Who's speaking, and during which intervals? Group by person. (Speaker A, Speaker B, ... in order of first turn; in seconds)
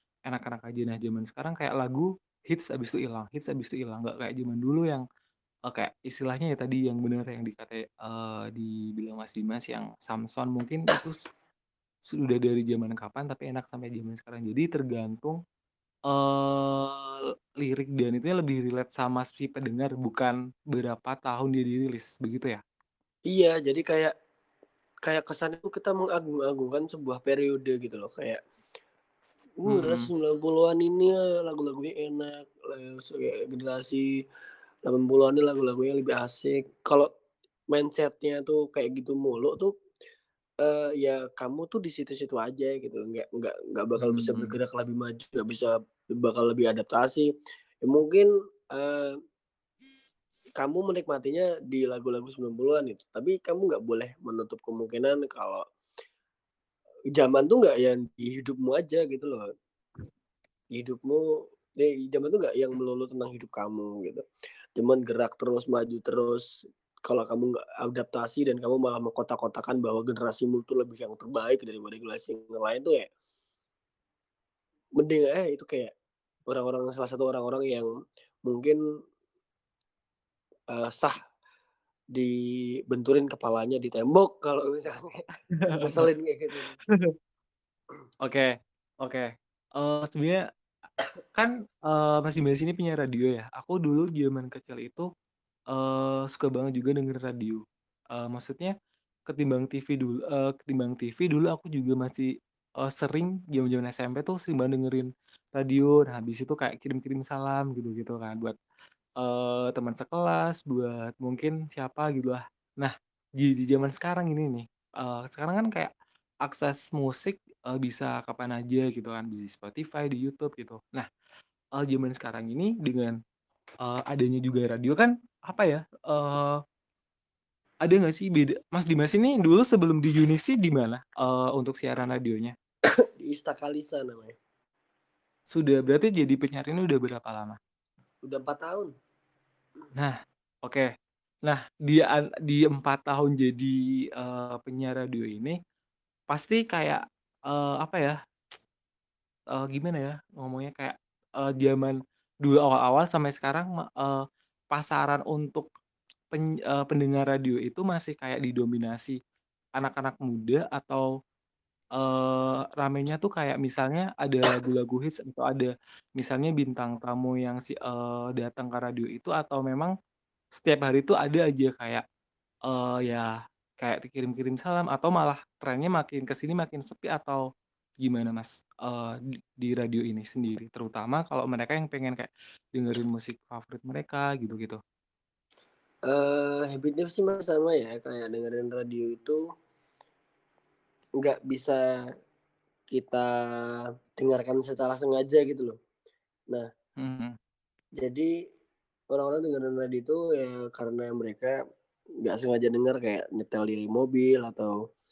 Speaker A: 0.2-5.0, 5.7-11.1, 12.1-15.4, 16.1-22.6, 29.7-30.1, 44.0-44.6, 85.6-86.1, 88.2-90.4, 91.3-95.1, 95.7-98.7, 99.3-108.5, 109.2-115.9, 116.4-121.1, 121.8-123.2, 123.8-126.6, 127.8-132.5, 135.5-137.6, 139.9-140.9, 141.4-145.6, 146.3-148.1, 149.5-155.7, 156.3-159.2, 159.8-161.1, 161.9-169.9, 170.5-172.0, 172.7-177.4, 178.0-184.8, 197.0-197.3
Speaker B: 23.3-24.1, 25.0-28.4, 29.6-34.1, 34.9-37.1, 37.7-39.7, 40.6-47.3, 47.8-49.1, 50.6-55.6, 57.1-59.4, 60.7-61.2, 61.7-64.2, 64.8-66.4, 67.1-73.1, 75.0-75.9, 76.5-77.9, 78.4-78.8, 80.7-81.2, 82.1-85.2, 85.8-86.8, 133.0-134.3, 138.2-138.9, 186.1-189.4, 191.2-191.8, 192.9-193.3, 194.2-195.8, 198.0-198.3, 199.1-201.6, 202.2-204.8